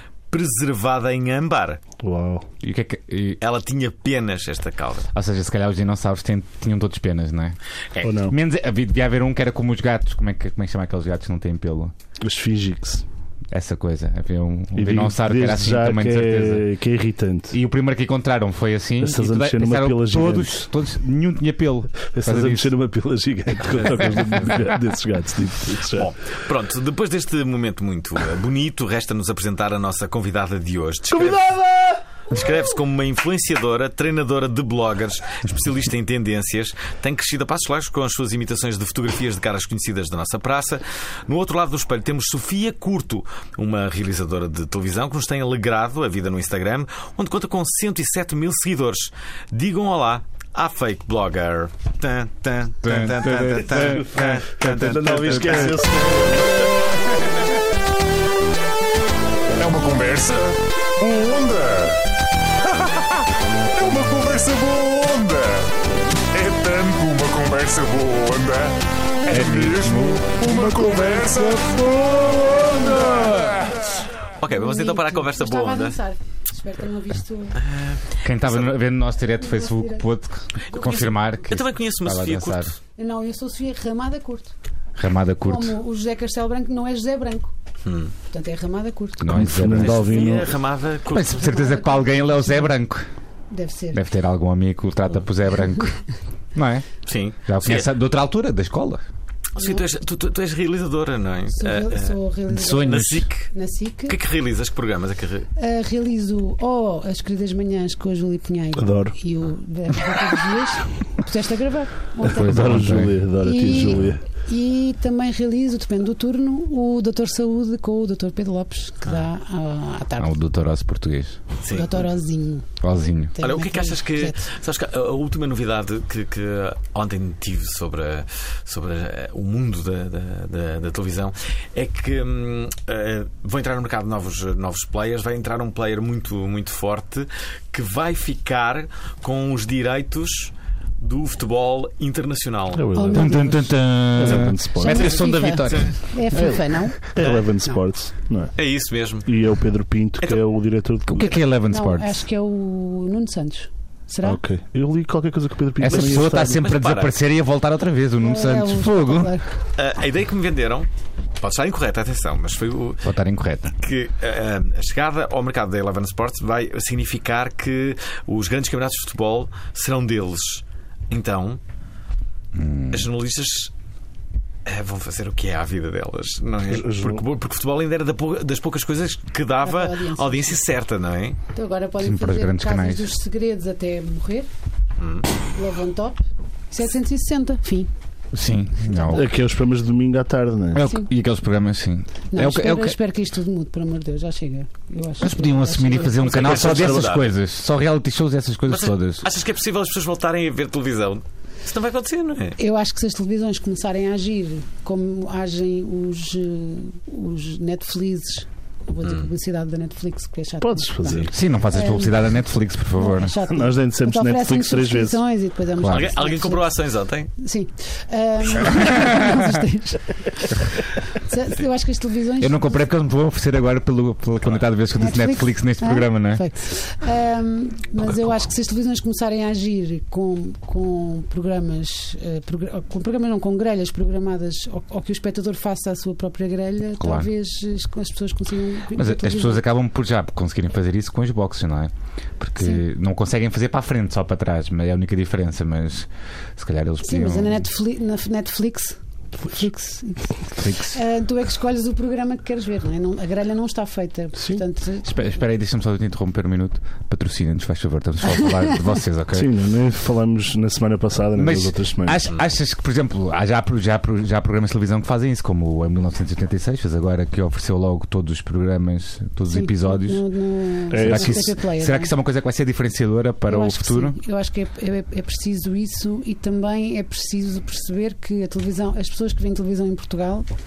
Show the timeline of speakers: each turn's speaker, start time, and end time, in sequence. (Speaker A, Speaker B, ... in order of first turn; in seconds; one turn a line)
Speaker A: 0.3-1.8
Speaker B: 2.0-2.5
Speaker C: 2.6-3.4
Speaker A: 3.4-5.1
Speaker C: 5.1-7.6
Speaker B: 8.0-8.4
Speaker C: 8.2-11.9
Speaker B: 12.2-13.0
Speaker C: 13.5-16.6
Speaker B: 14.7-17.6
Speaker C: 17.5-22.7
Speaker B: 19.0-20.7
Speaker B: 22.1-26.1
Speaker C: 23.7-24.7
Speaker A: 25.9-31.5
Speaker B: 31.1-32.0
Speaker A: 32.3-56.6
Speaker C: 52.8-55.8
Speaker B: 53.8-56.6
Speaker D: 59.5-62.0
Speaker D: 62.7-63.1
Speaker D: 63.8-65.7
Speaker D: 66.3-73.8
Speaker C: 69.3-70.4
Speaker E: 70.8-71.8
Speaker A: 74.4-76.0
Speaker E: 74.5-77.6
Speaker A: 77.6-78.7
Speaker C: 78.2-82.7
Speaker E: 79.4-80.0
Speaker A: 80.6-82.8
Speaker E: 83.0-84.5
Speaker C: 85.0-85.7
Speaker E: 85.4-87.5
Speaker A: 87.8-88.1
Speaker E: 88.3-89.5
Speaker C: 89.2-90.3
Speaker B: 89.3-90.5
Speaker A: 89.6-91.5
Speaker C: 91.1-93.0
Speaker E: 91.3-92.7
Speaker E: 93.5-94.0
Speaker C: 93.9-95.9
Speaker C: 96.5-96.9
Speaker A: 97.0-97.9
Speaker C: 97.4-99.0
Speaker A: 99.5-102.2
Speaker E: 99.6-99.9
Speaker E: 101.5-104.2
Speaker C: 102.5-103.3
Speaker A: 102.9-103.5
Speaker A: 104.0-105.5
Speaker E: 105.5-120.3
Speaker B: 108.8-109.1
Speaker C: 112.2-114.1
Speaker B: 112.3-114.2
Speaker C: 120.2-121.4
Speaker A: 121.6-122.0
Speaker E: 121.7-122.7
Speaker C: 122.8-123.3
Speaker E: 123.3-124.4
Speaker A: 123.4-142.9
Speaker B: 142.7-145.1
Speaker E: 142.9-143.7
Speaker C: 143.1-146.0
Speaker E: 144.6-147.0
Speaker A: 145.6-146.0
Speaker B: 146.3-148.5
Speaker A: 147.2-147.7
Speaker A: 148.6-149.3
Speaker B: 149.2-151.3
Speaker C: 151.1-152.2
Speaker E: 151.7-154.4
Speaker B: 154.2-156.6
Speaker C: 155.8-159.3
Speaker A: 155.9-157.1
Speaker E: 158.2-159.6
Speaker A: 159.8-160.9
Speaker A: 161.4-163.1
Speaker C: 163.0-163.7
Speaker A: 163.8-171.6
Speaker C: 172.5-173.1
Speaker A: 172.9-173.7
Speaker A: 174.7-181.4
Speaker B: 176.7-177.2
Speaker E: 179.6-180.5
Speaker E: 181.5-184.5
Speaker C: 182.0-183.1
Speaker A: 185.0-185.2
Speaker E: 185.5-186.2
Speaker E: 186.7-187.9
Speaker C: 188.3-189.2
Speaker E: 188.7-189.3
Speaker B: 189.1-190.8
Speaker C: 190.7-193.0
Speaker E: 190.8-191.1
Speaker E: 192.3-196.7
Speaker C: 195.2-199.3
Speaker A: 196.2-197.3
Speaker B: 196.5-197.0
Speaker A: 198.7-202.6
Speaker E: 202.6-212.3
Speaker B: 210.6-211.3
Speaker C: 211.3-213.4
Speaker E: 212.9-216.7
Speaker B: 213.5-215.2
Speaker C: 215.8-216.1
Speaker A: 215.9-217.3
Speaker E: 217.3-222.8
Speaker C: 219.0-219.5
Speaker C: 222.4-226.4
Speaker E: 224.9-239.6
Speaker C: 237.0-237.3
Speaker C: 238.9-247.6
Speaker E: 242.6-242.8
Speaker E: 247.0-255.4
Speaker C: 250.6-250.9
Speaker B: 254.3-254.6
Speaker C: 255.0-259.5
Speaker E: 258.3-258.7
Speaker B: 259.3-262.2
Speaker C: 261.4-270.2
Speaker E: 269.5-272.1
Speaker B: 270.9-271.5
Speaker C: 270.9-274.2
Speaker E: 273.5-280.5